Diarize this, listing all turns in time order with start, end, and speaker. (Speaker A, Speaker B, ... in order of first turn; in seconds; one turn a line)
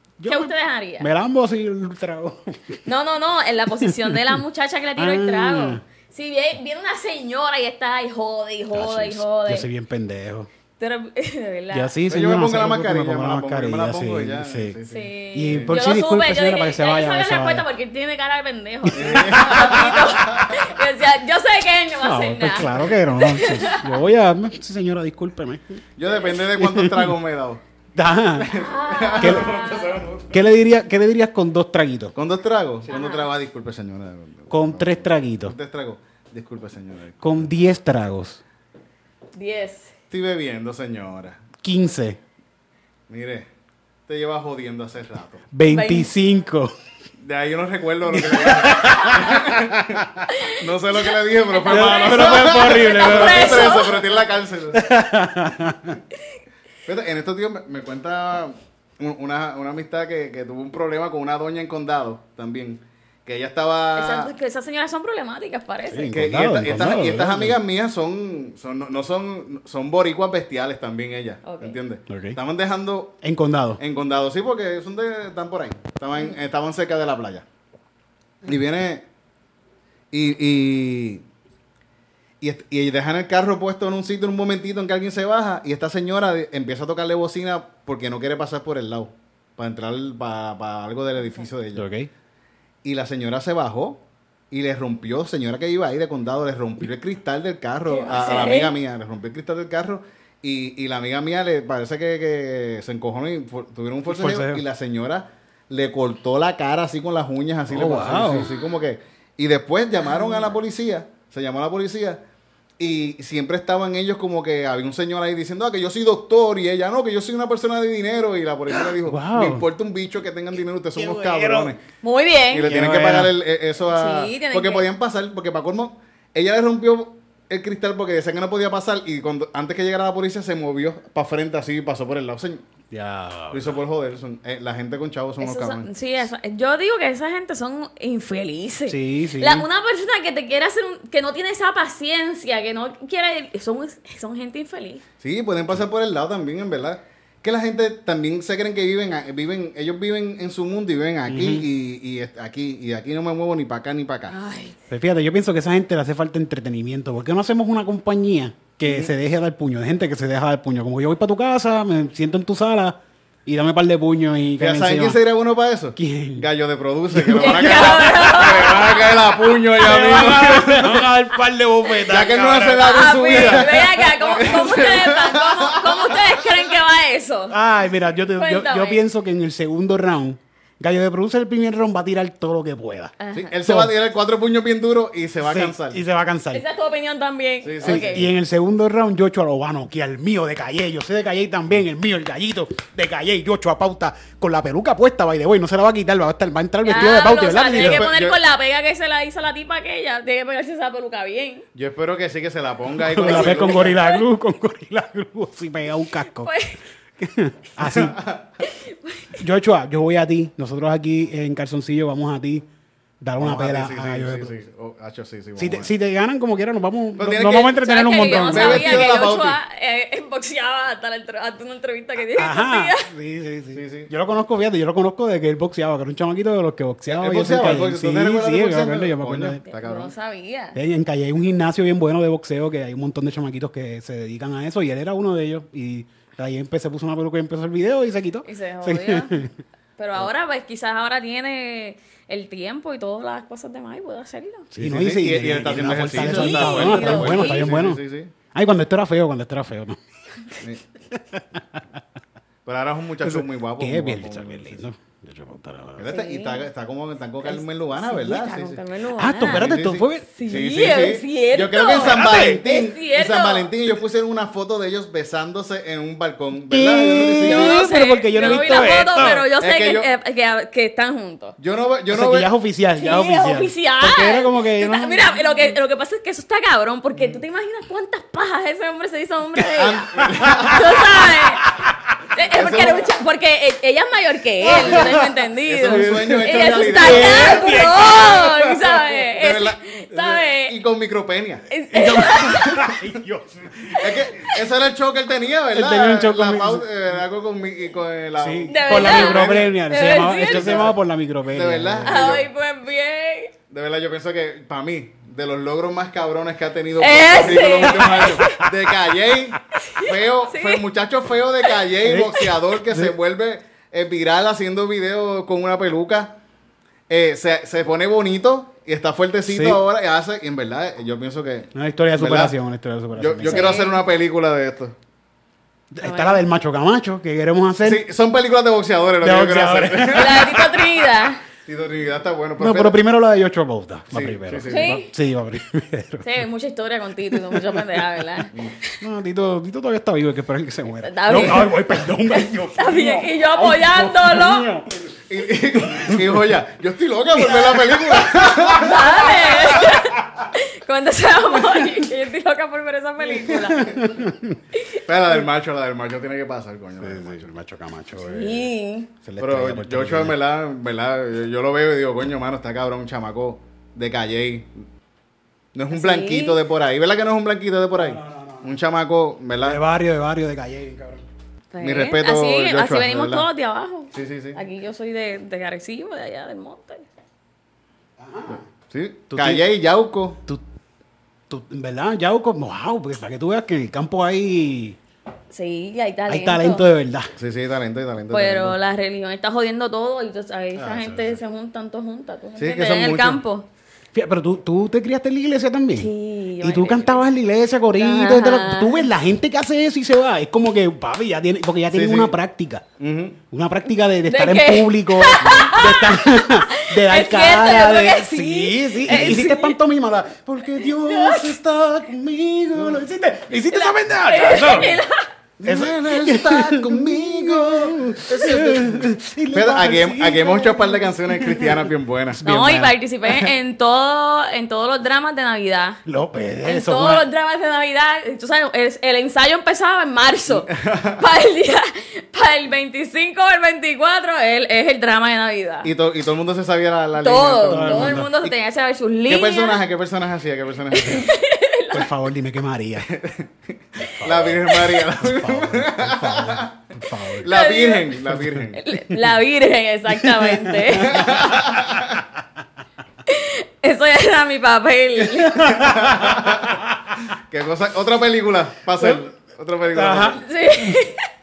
Speaker A: 0.2-2.8
Speaker B: 0.3-1.1
Speaker B: 2.9-9.7
Speaker A: 3.8-4.4
Speaker A: 5.0-5.8
Speaker A: 8.7-10.5
Speaker B: 10.8-11.9
Speaker A: 11.7-14.8
Speaker C: 12.1-15.7
Speaker B: 14.9-24.0
Speaker A: 15.3-17.6
Speaker A: 18.9-20.0
Speaker C: 18.9-20.5
Speaker A: 22.0-25.8
Speaker C: 26.0-27.6
Speaker A: 26.5-27.2
Speaker A: 27.9-28.5
Speaker C: 28.4-30.5
Speaker B: 28.5-30.0
Speaker A: 29.2-29.5
Speaker A: 30.3-32.1
Speaker C: 32.2-37.5
Speaker B: 32.9-33.3
Speaker A: 34.5-35.5
Speaker A: 37.2-38.4
Speaker B: 39.4-39.9
Speaker C: 40.1-41.4
Speaker A: 41.6-42.2
Speaker C: 43.1-43.5
Speaker C: 44.1-45.5
Speaker A: 45.5-46.7
Speaker B: 45.7-46.1
Speaker C: 47.2-54.9
Speaker A: 48.1-50.3
Speaker B: 50.3-50.6
Speaker B: 51.5-54.1
Speaker A: 51.7-53.8
Speaker A: 54.7-56.0
Speaker C: 56.9-64.3
Speaker B: 64.0-66.1
Speaker A: 65.9-67.6
Speaker C: 66.1-73.2
Speaker B: 71.4-71.8
Speaker A: 72.1-72.4
Speaker A: 73.2-73.8
Speaker C: 73.8-77.5
Speaker C: 78.5-79.1
Speaker C: 80.1-81.2
Speaker C: 82.4-91.9
Speaker A: 91.8-92.1
Speaker C: 92.8-112.2
Speaker B: 97.9-98.7
Speaker A: 104.1-104.6
Speaker A: 107.7-108.5
Speaker B: 110.0-110.6
Speaker C: 112.8-121.8
Speaker A: 118.7-119.7
Speaker A: 121.0-121.8
Speaker B: 122.0-122.7
Speaker C: 122.5-132.6
Speaker A: 122.6-123.3
Speaker B: 123.9-124.9
Speaker A: 132.9-133.8
Speaker C: 133.5-135.9
Speaker B: 135.4-145.0
Speaker A: 138.9-139.7
Speaker C: 145.2-154.4
Speaker A: 151.3-151.7
Speaker B: 154.3-154.8
Speaker A: 154.9-165.2
Speaker C: 158.8-159.1
Speaker C: 164.6-171.2
Speaker A: 166.0-166.5
Speaker A: 167.1-169.1
Speaker B: 167.4-169.1
Speaker A: 169.8-173.9
Speaker C: 172.0-176.7
Speaker B: 172.8-177.6
Speaker A: 177.5-183.9
Speaker B: 178.3-179.0
Speaker B: 183.2-183.5
Speaker C: 183.3-186.0
Speaker A: 185.4-186.6
Speaker B: 186.5-188.2
Speaker C: 187.6-188.3
Speaker A: 187.8-198.1
Speaker B: 196.8-201.7
Speaker C: 197.7-198.4
Speaker C: 201.8-204.0
Speaker A: 203.0-206.5
Speaker B: 203.2-204.2
Speaker B: 206.4-206.8
Speaker A: 207.2-208.2
Speaker C: 207.8-208.5
Speaker B: 208.7-209.4
Speaker A: 209.4-212.7
Speaker A: 213.2-214.6
Speaker C: 213.4-215.9
Speaker A: 215.6-219.2
Speaker C: 217.2-219.6
Speaker B: 217.8-223.1
Speaker A: 222.4-229.6
Speaker C: 223.7-224.1
Speaker C: 227.1-230.1
Speaker B: 229.7-230.8
Speaker A: 230.8-239.5
Speaker B: 238.4-239.5
Speaker B: 240.0-244.7
Speaker A: 244.7-248.0
Speaker C: 244.8-248.3
Speaker B: 246.2-247.7
Speaker A: 248.5-250.0
Speaker A: 251.1-251.6
Speaker C: 252.7-254.8
Speaker A: 253.2-256.2
Speaker C: 256.0-258.8
Speaker B: 256.1-256.6
Speaker B: 257.5-259.7
Speaker A: 259.2-260.3
Speaker C: 259.4-267.9
Speaker B: 260.3-263.7
Speaker A: 262.0-262.6
Speaker A: 266.7-269.5
Speaker B: 267.4-271.6
Speaker C: 269.2-270.1
Speaker C: 271.6-272.5
Speaker A: 272.1-275.7
Speaker B: 273.0-281.7
Speaker C: 279.6-281.1
Speaker A: 280.2-280.8
Speaker A: 281.6-281.9
Speaker B: 282.3-290.7
Speaker C: 282.5-283.1
Speaker A: 284.6-285.4
Speaker C: 284.8-288.5
Speaker A: 285.9-288.7
Speaker C: 289.3-291.6
Speaker B: 291.7-292.9
Speaker A: 291.9-294.3
Speaker C: 293.9-302.5
Speaker A: 295.7-297.2
Speaker A: 298.4-302.2
Speaker B: 298.7-300.9
Speaker B: 302.1-303.5
Speaker C: 303.7-316.4
Speaker B: 307.0-308.6
Speaker B: 309.8-310.8
Speaker A: 312.0-313.1
Speaker C: 317.1-322.6
Speaker A: 319.5-319.8
Speaker A: 321.8-323.8
Speaker C: 323.1-324.9
Speaker B: 323.5-324.0
Speaker A: 325.9-328.1
Speaker B: 326.0-326.4
Speaker C: 327.8-330.6
Speaker A: 329.2-330.7
Speaker B: 330.1-331.4
Speaker C: 331.6-333.0
Speaker A: 332.6-336.3
Speaker C: 334.1-335.0
Speaker B: 334.7-335.1
Speaker B: 336.2-339.0
Speaker A: 337.3-337.8
Speaker A: 339.0-345.0
Speaker B: 341.0-344.7
Speaker C: 345.3-349.1
Speaker A: 345.9-346.4
Speaker A: 347.4-350.1
Speaker B: 348.8-354.0
Speaker A: 353.4-354.6
Speaker B: 354.7-355.0
Speaker C: 355.0-357.5
Speaker A: 357.0-358.7
Speaker B: 358.2-359.1
Speaker A: 359.2-360.4
Speaker C: 359.4-364.9
Speaker C: 365.8-369.8
Speaker B: 365.9-366.6
Speaker A: 368.0-368.7
Speaker A: 369.6-371.3
Speaker B: 371.7-377.1
Speaker C: 371.8-373.5
Speaker C: 374.1-374.6
Speaker A: 378.2-378.6
Speaker C: 378.9-380.4
Speaker A: 379.3-379.7
Speaker A: 381.5-385.0
Speaker B: 385.5-386.9
Speaker A: 386.3-387.3
Speaker C: 387.4-388.8
Speaker B: 388.3-393.7
Speaker C: 390.8-391.4
Speaker C: 392.6-393.4
Speaker A: 394.1-396.1
Speaker B: 396.0-397.2
Speaker A: 396.6-402.9
Speaker B: 397.9-399.1
Speaker C: 401.9-402.3
Speaker C: 403.0-403.4
Speaker A: 403.5-415.0
Speaker B: 404.3-409.8
Speaker B: 410.8-411.6
Speaker B: 413.7-415.3
Speaker C: 415.6-422.4
Speaker A: 415.6-422.9
Speaker B: 422.4-426.0
Speaker A: 426.1-427.2
Speaker B: 426.6-435.9
Speaker C: 430.7-431.2
Speaker C: 435.8-438.5
Speaker B: 437.2-439.8
Speaker A: 437.7-438.3
Speaker C: 439.3-441.3
Speaker B: 440.9-442.1
Speaker A: 441.9-443.1
Speaker C: 443.0-446.7
Speaker A: 444.0-447.5
Speaker C: 447.4-448.8
Speaker B: 447.4-448.1
Speaker A: 448.3-449.2
Speaker B: 448.8-451.4
Speaker A: 450.1-452.0
Speaker C: 451.0-452.2
Speaker B: 453.3-455.9
Speaker A: 455.3-457.1
Speaker C: 455.7-460.4
Speaker A: 459.9-461.0
Speaker B: 460.4-461.2